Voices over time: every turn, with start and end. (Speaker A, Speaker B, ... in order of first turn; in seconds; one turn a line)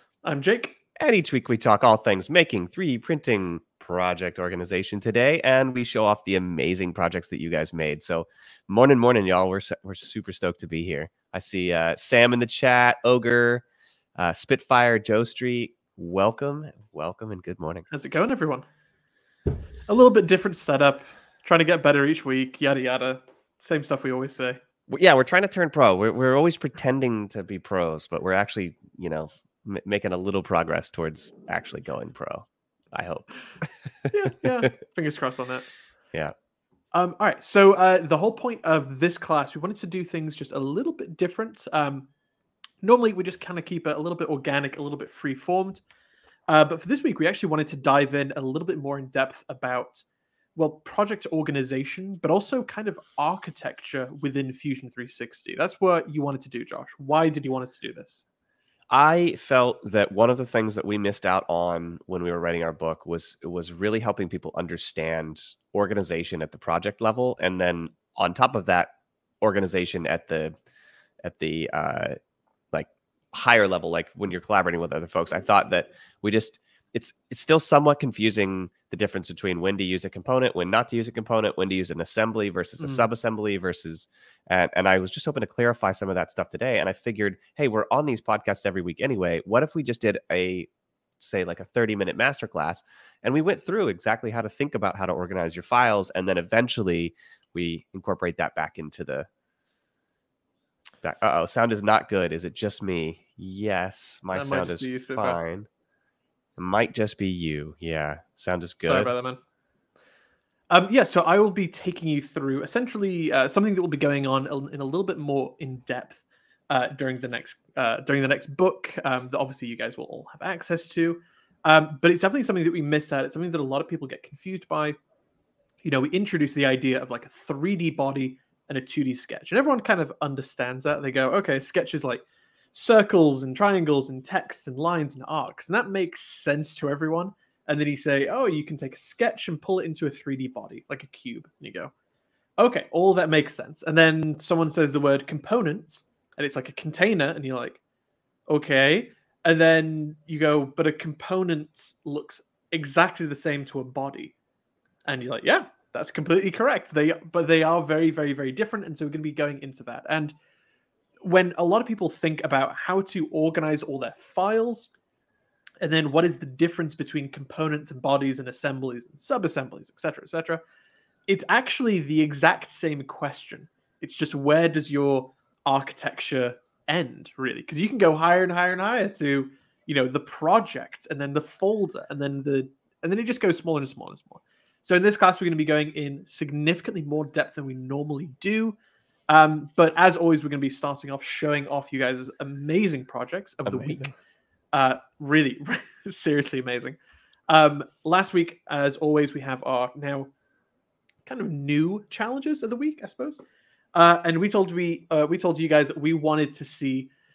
Speaker A: 0.2-0.8
Speaker B: 1.0-13.6
Speaker B: 14.2-17.9
Speaker A: 17.9-18.7
Speaker A: 19.9-24.6
Speaker B: 24.9-34.1
Speaker A: 34.1-35.7
Speaker A: 36.9-42.1
Speaker A: 42.8-45.8
Speaker A: 46.5-50.0
Speaker A: 50.6-58.2
Speaker B: 58.9-70.5
Speaker B: 71.2-72.2
Speaker B: 72.7-90.7
Speaker A: 82.8-83.1
Speaker B: 91.2-99.3
Speaker B: 101.0-105.7
Speaker A: 104.3-105.4
Speaker B: 106.6-109.1
Speaker A: 108.8-109.4
Speaker A: 110.7-125.0
Speaker A: 125.8-141.9
Speaker A: 142.6-147.8
Speaker A: 148.5-154.3
Speaker A: 155.1-160.3
Speaker A: 161.2-164.9
Speaker A: 165.8-170.6
Speaker A: 171.3-188.8
Speaker A: 189.3-194.2
Speaker B: 193.7-194.0
Speaker A: 194.7-197.0
Speaker A: 197.5-200.3
Speaker A: 201.3-203.4
Speaker A: 203.9-207.1